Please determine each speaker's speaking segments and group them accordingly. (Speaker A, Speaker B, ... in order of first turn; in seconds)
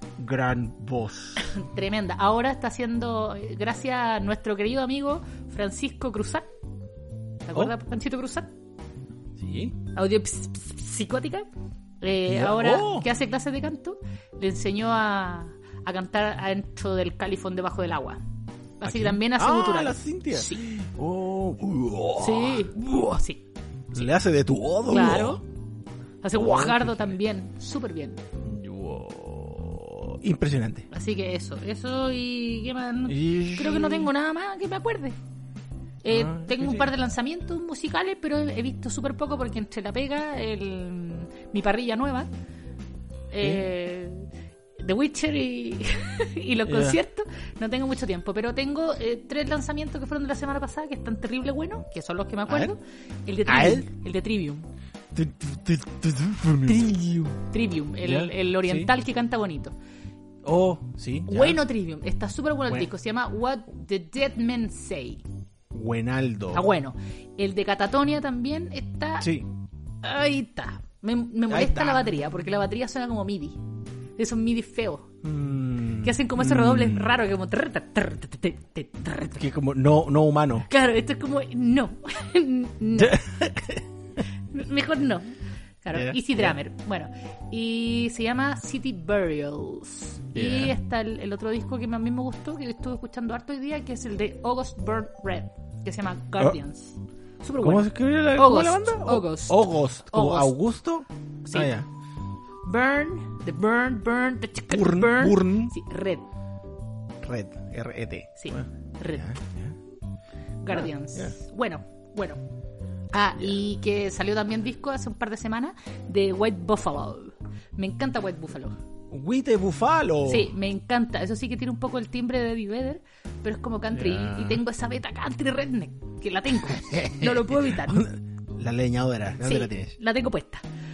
Speaker A: 0.2-1.5, 9.4-9.8, 12.3-13.1, 18.8-23.1, 23.9-25.4, 26.3-27.1, 28.4-30.9, 33.1-34.1, 36.1-36.9, 46.6-47.0, 53.5-53.9, 55.1-57.0, 58.0-58.9, 60.4-61.6, 65.7-66.6, 69.2-69.5, 71.5-72.0, 75.2-77.2, 79.3-80.7, 83.0-83.9, 85.9-86.5, 90.3-90.8, 97.6-101.8, 104.7-105.7, 107.2-109.8, 110.7-111.3, 119.1-120.5, 123.9-124.6, 126.6-130.0
Speaker B: 1.4-6.5, 7.4-8.5, 9.9-11.5, 12.0-18.2, 18.8-20.6, 22.2-23.4, 24.9-25.4, 26.2-28.2, 30.9-35.2, 36.0-42.3, 43.3-54.7, 56.6-59.7, 61.3-65.2, 66.5-69.3, 70.0-73.6, 74.2-75.1, 76.0-79.4, 80.6-83.3, 84.4-85.3, 85.8-100.6, 101.4-101.7, 102.6-106.2, 108.4-109.4, 110.6-112.4, 113.1-118.8, 120.2-128.1, 129.4-130.6